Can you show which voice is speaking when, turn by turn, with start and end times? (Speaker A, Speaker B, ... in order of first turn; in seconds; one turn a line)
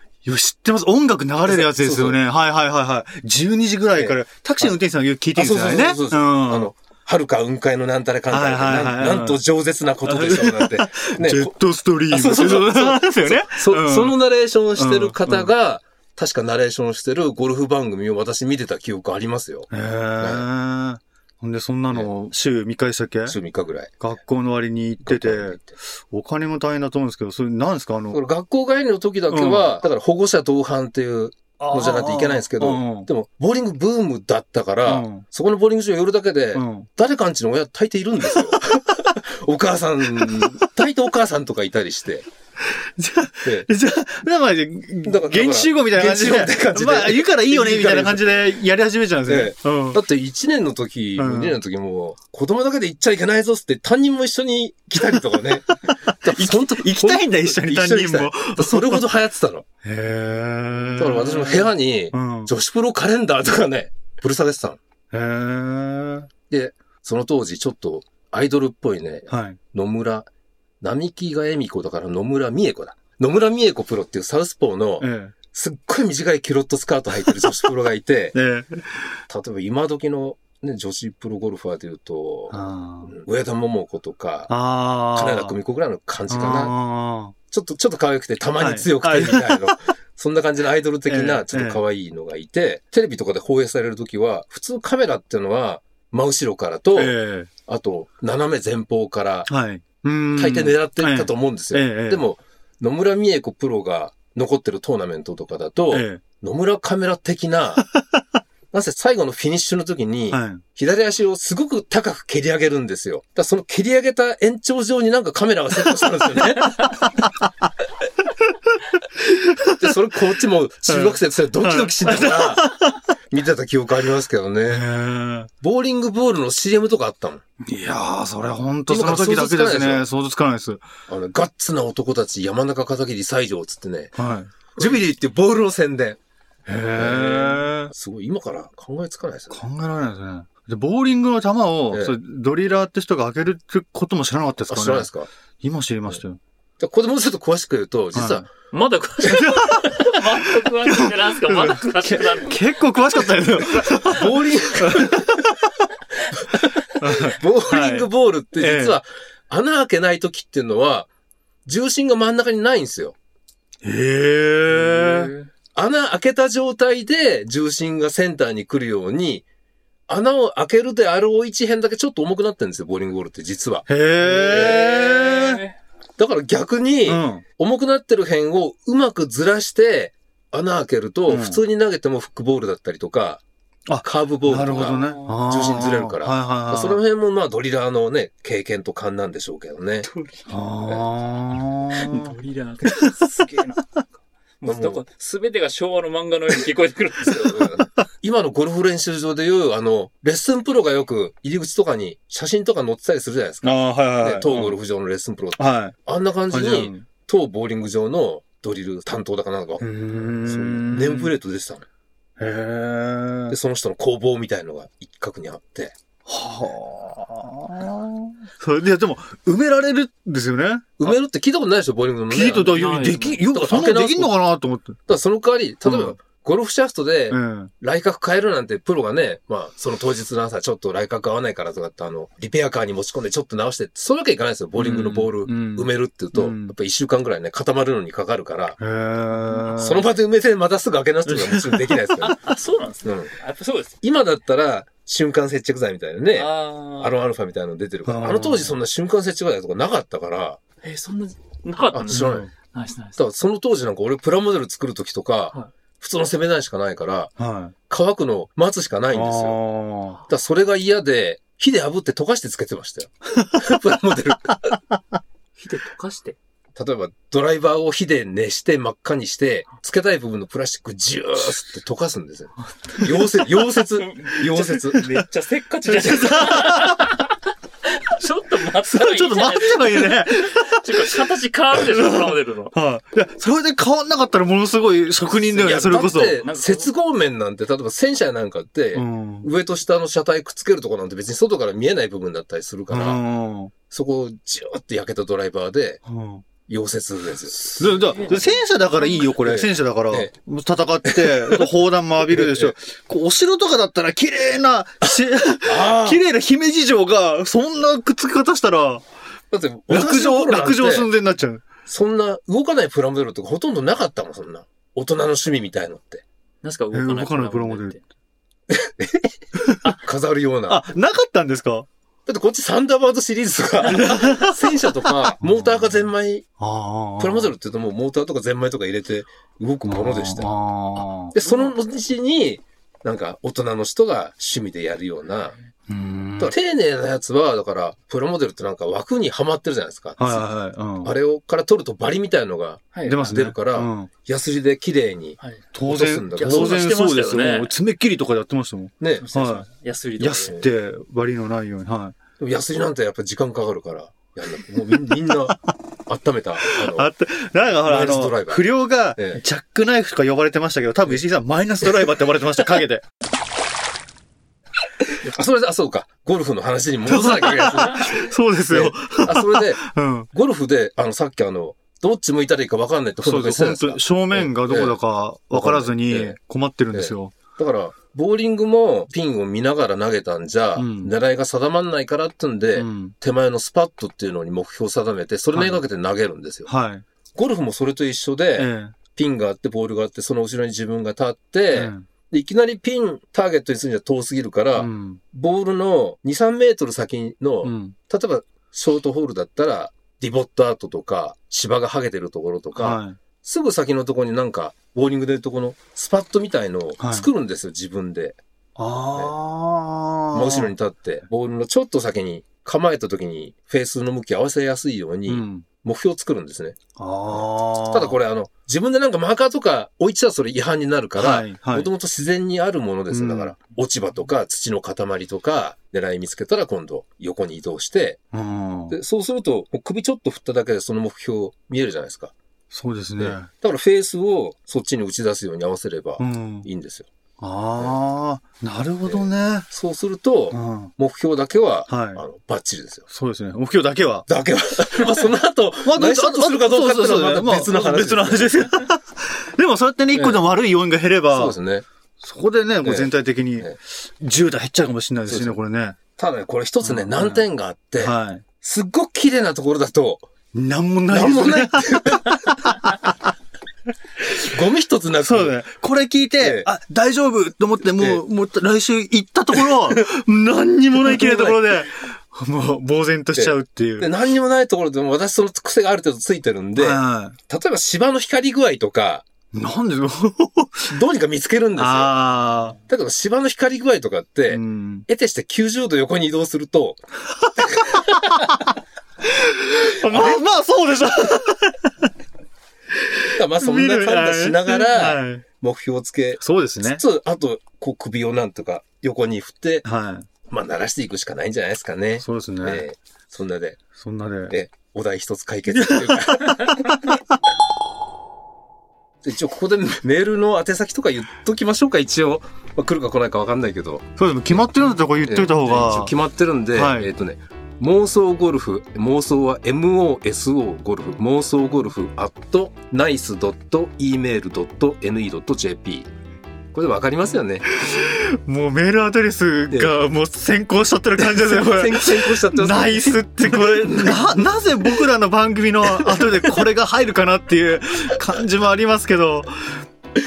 Speaker A: 0.2-6.7
Speaker B: 1.4-2.2
Speaker B: 3.9-4.8
Speaker B: 5.3-11.5
Speaker A: 8.3-9.4
Speaker A: 10.0-14.1
Speaker B: 12.1-19.7
Speaker A: 14.8-15.5
Speaker A: 19.7-23.4
Speaker B: 20.2-20.4
Speaker B: 23.3-23.9
Speaker A: 24.0-28.2
Speaker B: 25.0-25.7
Speaker B: 28.1-42.2
Speaker A: 29.3-29.8
Speaker A: 31.6-33.1
Speaker A: 34.9-35.2
Speaker A: 36.5-36.9
Speaker A: 40.2-40.7
Speaker A: 42.6-50.0
Speaker B: 45.0-48.5
Speaker B: 49.3-59.6
Speaker A: 51.2-51.6
Speaker A: 55.1-59.1
Speaker A: 59.8-62.5
Speaker B: 61.0-64.8
Speaker A: 65.1-66.3
Speaker B: 66.5-70.3
Speaker A: 69.3-69.6
Speaker B: 70.8-78.3
Speaker A: 75.0-75.3
Speaker A: 78.3-79.1
Speaker B: 79.3-82.5
Speaker A: 82.5-83.1
Speaker B: 83.1-84.5
Speaker A: 84.5-85.5
Speaker B: 85.1-86.7
Speaker A: 86.3-87.3
Speaker B: 87.5-97.1
Speaker A: 88.6-89.6
Speaker A: 91.1-91.8
Speaker A: 96.9-97.5
Speaker B: 97.7-99.5
Speaker A: 99.5-102.2
Speaker B: 100.3-107.8
Speaker A: 105.9-106.2
Speaker A: 107.9-108.2
Speaker B: 108.7-117.0
Speaker A: 110.3-110.6
Speaker A: 116.8-117.5
Speaker A: 119.2-119.9
Speaker B: 119.8-122.7
Speaker A: 120.9-123.0
Speaker B: 123.3-124.8
Speaker A: 124.7-125.5
Speaker B: 125.6-127.4
Speaker A: 127.6-130.8
Speaker B: 128.9-130.1
Speaker B: 131.1-134.1
Speaker A: 134.2-134.5
Speaker B: 134.7-136.2
Speaker A: 136.7-137.9
Speaker B: 136.9-139.6
Speaker A: 139.5-145.1
Speaker B: 141.9-142.2
Speaker B: 144.7-145.3
Speaker A: 145.6-146.4
Speaker B: 146.8-148.4
Speaker A: 148.1-148.4
Speaker C: 148.7-154.0
Speaker A: 149.2-155.6
Speaker B: 154.0-155.4
Speaker A: 156.9-159.0
Speaker B: 157.0-161.1
Speaker B: 161.7-163.1
Speaker A: 163.8-165.3
Speaker C: 164.9-165.5
Speaker B: 165.7-169.4
Speaker B: 170.1-173.8
Speaker A: 173.9-175.6
Speaker C: 174.2-175.8
Speaker B: 174.5-174.9
Speaker B: 176.2-183.4
Speaker A: 177.1-177.4
Speaker A: 181.3-181.6
Speaker A: 183.9-187.0
Speaker B: 184.0-190.1
Speaker C: 184.8-185.3
Speaker C: 190.0-190.5
Speaker A: 190.5-192.3
Speaker C: 191.9-193.9
Speaker C: 194.6-197.8
Speaker B: 194.6-195.0
Speaker B: 197.2-211.8
Speaker A: 203.6-204.7
Speaker A: 205.6-205.9
Speaker A: 206.5-207.1
Speaker A: 209.8-211.3
Speaker A: 212.4-213.6
Speaker B: 213.5-215.9
Speaker A: 216.3-221.1
Speaker B: 221.0-224.3
Speaker A: 222.3-225.0
Speaker C: 222.5-223.4
Speaker B: 225.1-238.8
Speaker A: 225.8-226.1
Speaker A: 227.3-227.7
Speaker A: 234.8-236.7
Speaker A: 238.8-240.0
Speaker B: 239.8-242.4
Speaker A: 241.3-242.0
Speaker C: 242.3-244.0
Speaker B: 243.0-243.3
Speaker B: 244.0-250.6
Speaker C: 246.3-247.2
Speaker A: 248.1-248.8
Speaker C: 250.8-253.2
Speaker B: 251.9-252.5
Speaker A: 252.1-252.5
Speaker B: 253.2-257.3
Speaker A: 257.4-257.7
Speaker B: 257.9-259.6
Speaker A: 259.1-260.2
Speaker B: 260.3-264.8
Speaker C: 265.6-266.4
Speaker B: 266.8-275.1
Speaker C: 272.9-273.2
Speaker C: 274.0-277.3
Speaker A: 275.9-277.0
Speaker C: 278.0-282.7
Speaker A: 278.9-281.2
Speaker A: 281.8-286.4
Speaker B: 285.5-293.2
Speaker C: 286.4-286.9
Speaker A: 288.9-289.5
Speaker A: 292.9-293.7
Speaker B: 293.9-296.0
Speaker A: 296.1-296.4
Speaker B: 296.7-297.9
Speaker A: 297.7-309.0
Speaker C: 297.8-298.6
Speaker B: 299.2-300.3
Speaker B: 301.0-301.7
Speaker B: 302.3-302.7
Speaker B: 305.0-306.2
Speaker B: 309.5-311.1
Speaker A: 309.9-311.6
Speaker B: 311.9-316.2
Speaker C: 316.6-318.0
Speaker A: 316.9-317.9
Speaker B: 318.7-319.3
Speaker A: 319.6-320.0
Speaker B: 319.9-320.9
Speaker A: 320.7-321.9
Speaker B: 322.2-326.4
Speaker A: 323.9-324.6
Speaker A: 325.4-325.9
Speaker A: 326.6-327.5
Speaker B: 327.2-330.5
Speaker A: 329.9-331.4
Speaker B: 331.3-335.5
Speaker A: 335.9-336.5
Speaker B: 336.4-340.5
Speaker A: 340.2-341.1
Speaker B: 341.0-345.4
Speaker C: 342.9-343.2
Speaker A: 343.1-344.1
Speaker A: 345.7-349.7
Speaker B: 345.9-346.8
Speaker C: 346.4-347.7
Speaker B: 349.0-349.2
Speaker C: 349.2-350.6
Speaker A: 350.2-352.1
Speaker B: 352.4-357.1
Speaker A: 354.9-355.6
Speaker A: 356.6-363.0
Speaker B: 357.8-358.6
Speaker B: 365.2-375.0
Speaker A: 367.1-370.3
Speaker A: 373.2-377.4
Speaker B: 375.5-376.4
Speaker B: 376.9-386.7
Speaker A: 380.8-381.1
Speaker A: 382.7-383.1
Speaker A: 385.5-385.8
Speaker A: 386.6-387.0
Speaker B: 387.4-408.4
Speaker A: 388.6-388.9
Speaker A: 391.7-392.1
Speaker A: 394.8-395.2
Speaker A: 397.6-397.9
Speaker A: 402.8-403.2
Speaker A: 407.0-407.3
Speaker A: 408.8-410.7
Speaker B: 410.3-416.8
Speaker A: 415.3-415.6
Speaker A: 416.9-418.2
Speaker B: 417.3-428.2
Speaker A: 421.2-421.9
Speaker A: 423.1-423.5
Speaker A: 428.3-429.0
Speaker B: 428.9-432.3
Speaker A: 432.7-433.5
Speaker B: 433.2-437.1
Speaker A: 436.2-436.7
Speaker A: 437.4-439.7
Speaker B: 439.0-443.0
Speaker A: 440.5-440.9
Speaker A: 441.9-442.2
Speaker A: 443.1-444.3
Speaker B: 444.3-448.7
Speaker A: 445.9-451.6
Speaker B: 450.1-450.4
Speaker B: 451.3-451.9
Speaker A: 452.2-456.0
Speaker B: 452.8-453.8
Speaker B: 455.3-455.6
Speaker B: 456.2-460.2
Speaker A: 456.8-457.4
Speaker A: 458.0-458.4
Speaker A: 460.5-463.2
Speaker B: 461.1-462.4
Speaker B: 464.4-465.6
Speaker A: 465.2-474.1
Speaker B: 466.4-466.7
Speaker B: 468.0-468.2
Speaker B: 469.6-470.0
Speaker B: 471.0-471.7
Speaker B: 473.3-479.2
Speaker A: 476.8-477.4
Speaker A: 479.5-480.9
Speaker B: 480.9-482.1
Speaker A: 481.8-482.8
Speaker B: 482.9-487.0
Speaker A: 484.5-485.1
Speaker A: 487.4-488.7
Speaker B: 487.6-488.4
Speaker A: 489.3-492.1
Speaker B: 490.0-490.4
Speaker A: 493.0-495.4
Speaker B: 493.4-499.9
Speaker A: 496.4-497.0
Speaker A: 499.9-500.3
Speaker B: 500.5-503.8
Speaker A: 502.2-502.9
Speaker A: 504.0-504.5
Speaker B: 504.5-507.1
Speaker A: 505.7-507.2
Speaker B: 509.2-514.6
Speaker A: 514.2-516.1
Speaker B: 515.2-526.1
Speaker A: 516.7-517.1
Speaker B: 526.7-527.7
Speaker A: 527.7-539.5
Speaker B: 531.2-534.3
Speaker B: 536.0-536.5